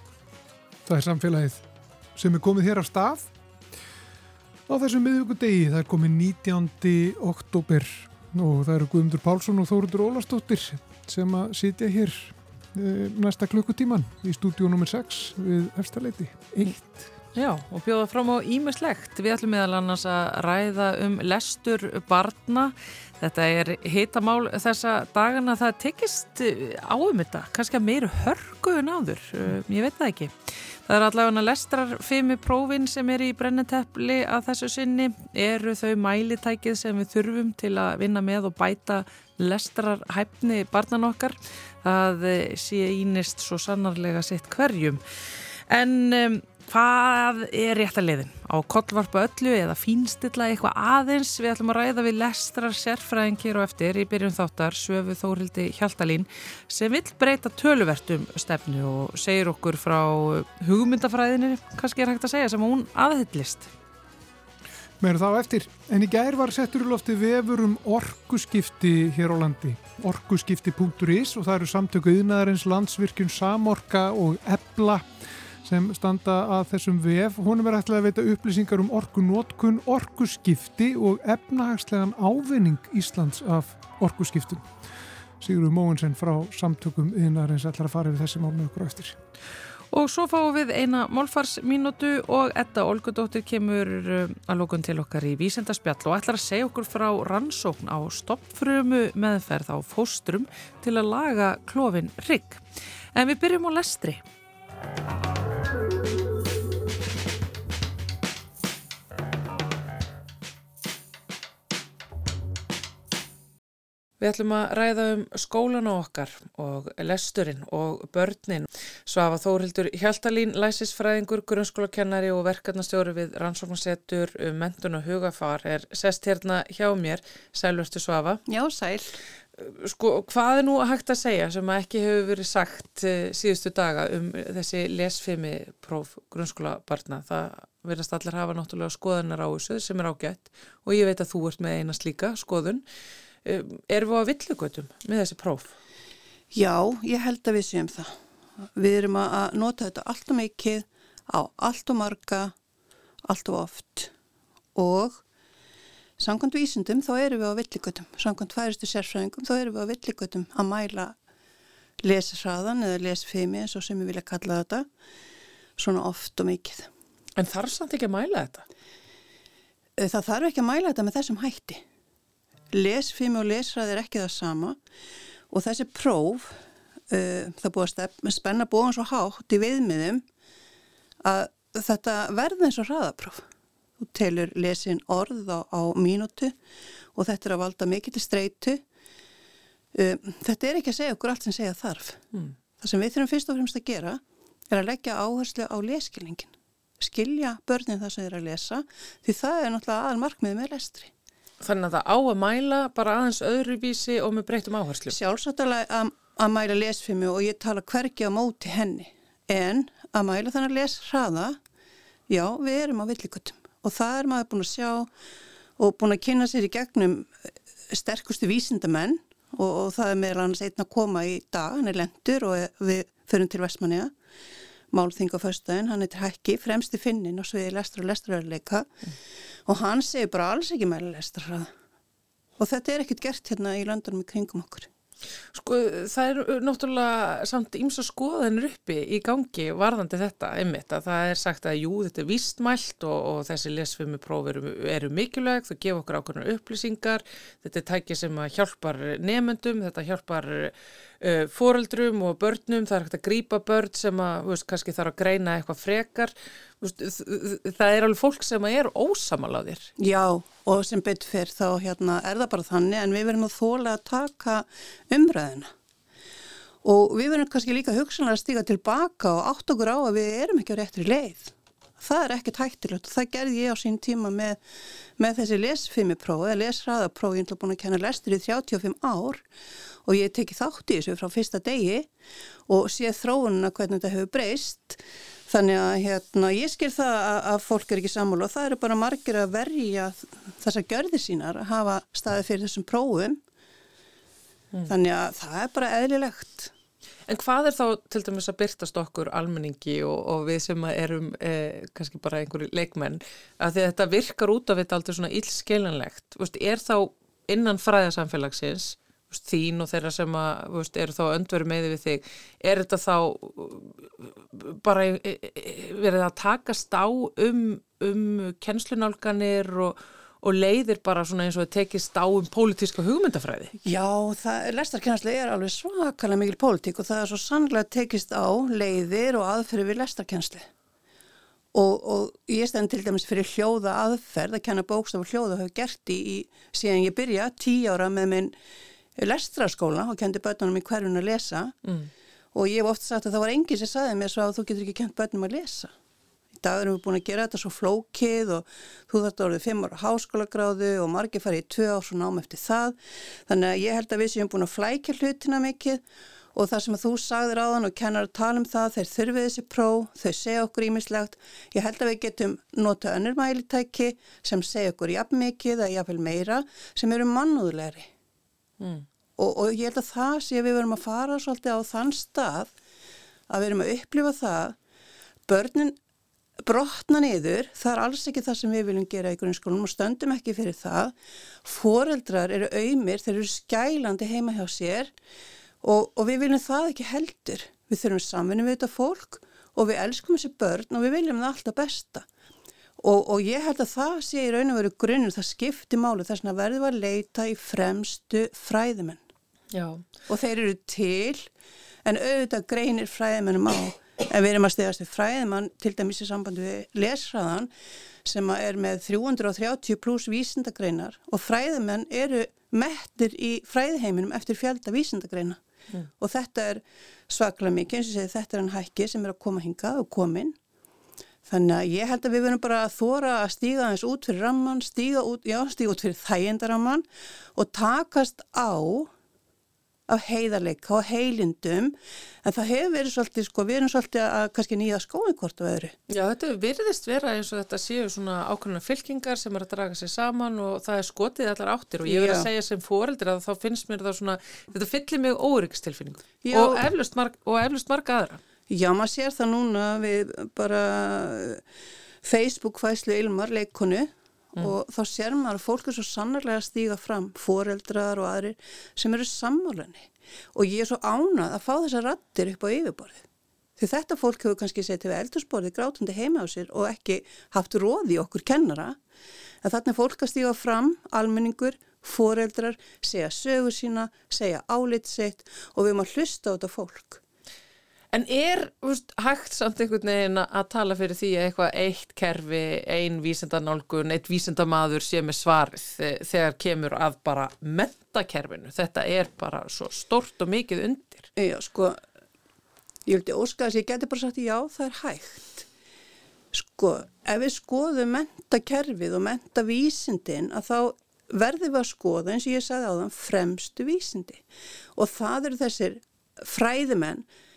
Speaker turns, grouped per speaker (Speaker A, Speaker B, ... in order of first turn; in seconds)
Speaker A: 0.8-1.6, 2.2-3.3, 4.7-17.0, 65.0-75.1, 75.6-84.7, 85.4-89.2
Speaker B: 17.3-63.7, 89.9-102.6, 103.1-104.2, 114.2-128.4, 129.6-142.8, 143.4-145.7, 167.4-168.6, 201.6-205.2, 235.5-259.9, 297.3-323.7, 341.8-342.1, 368.8-369.1, 399.7-400.0, 436.1-448.4, 478.1-491.3
Speaker C: 128.4-129.2, 146.5-148.2, 148.8-152.5, 153.2-154.1, 154.8-155.2, 156.2-161.2, 162.0-164.9, 165.8-166.9, 170.0-171.8, 172.7-174.8, 175.5-180.2, 181.2-183.4, 184.0-186.6, 187.1-188.8, 189.9-192.2, 192.8-201.1, 205.1-211.6, 212.3-215.1, 215.8-217.3, 217.9-224.1, 224.9-228.9, 229.7-231.7, 232.6-234.9, 260.0-265.7, 266.8-274.6, 275.2-279.4, 280.1-282.1, 282.7-293.4, 294.9-296.7, 323.8-330.7, 331.7-338.6, 339.1-341.8, 342.5-345.9, 346.5-356.0, 356.5-368.1, 369.4-372.7, 373.5-374.8, 375.5-376.0, 376.6-385.1, 385.8-392.2, 393.0-399.2, 400.3-401.5, 402.0-407.7, 408.2-415.6, 416.2-420.6, 421.5-429.1, 430.1-435.9, 442.1-442.5, 446.4-446.8, 448.7-451.6, 452.2-463.3, 463.8-469.0, 469.6-477.2, 491.4-492.0, 493.1-495.7, 496.5-504.4, 505.0-507.2